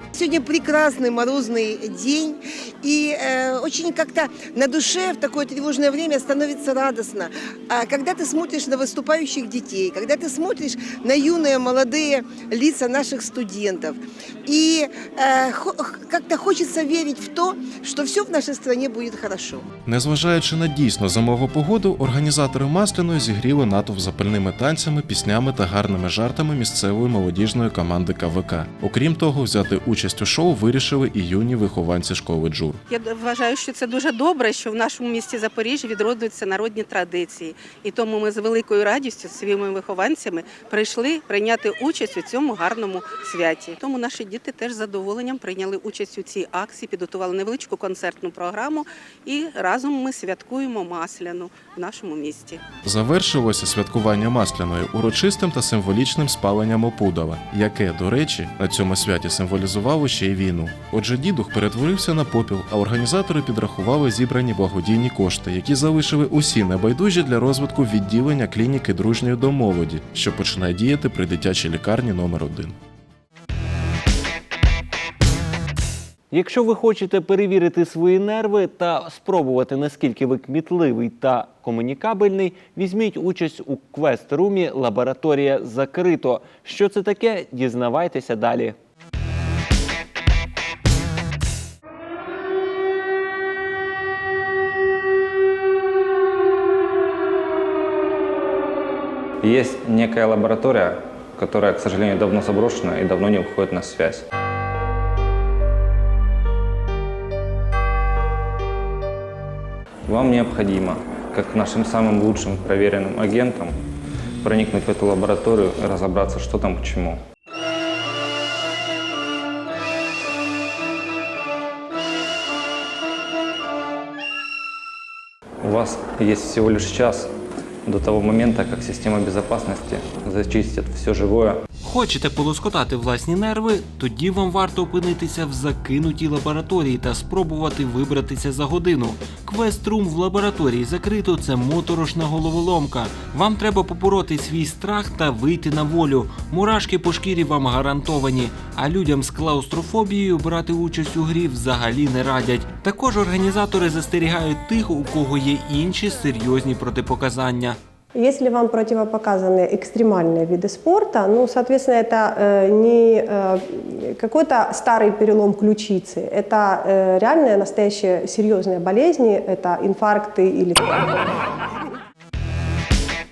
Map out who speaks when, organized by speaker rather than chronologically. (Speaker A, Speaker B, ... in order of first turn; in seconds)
Speaker A: 0.1-19.6
Speaker B: 19.8-32.8, 52.8-72.8
Speaker C: 32.9-52.6
Speaker D: 76.3-88.8, 131.8-157.8
Speaker E: 99.4-104.2, 110.1-113.8, 114.4-117.2, 125.6-127.3, 127.8-131.6
Speaker F: 158.1-170.9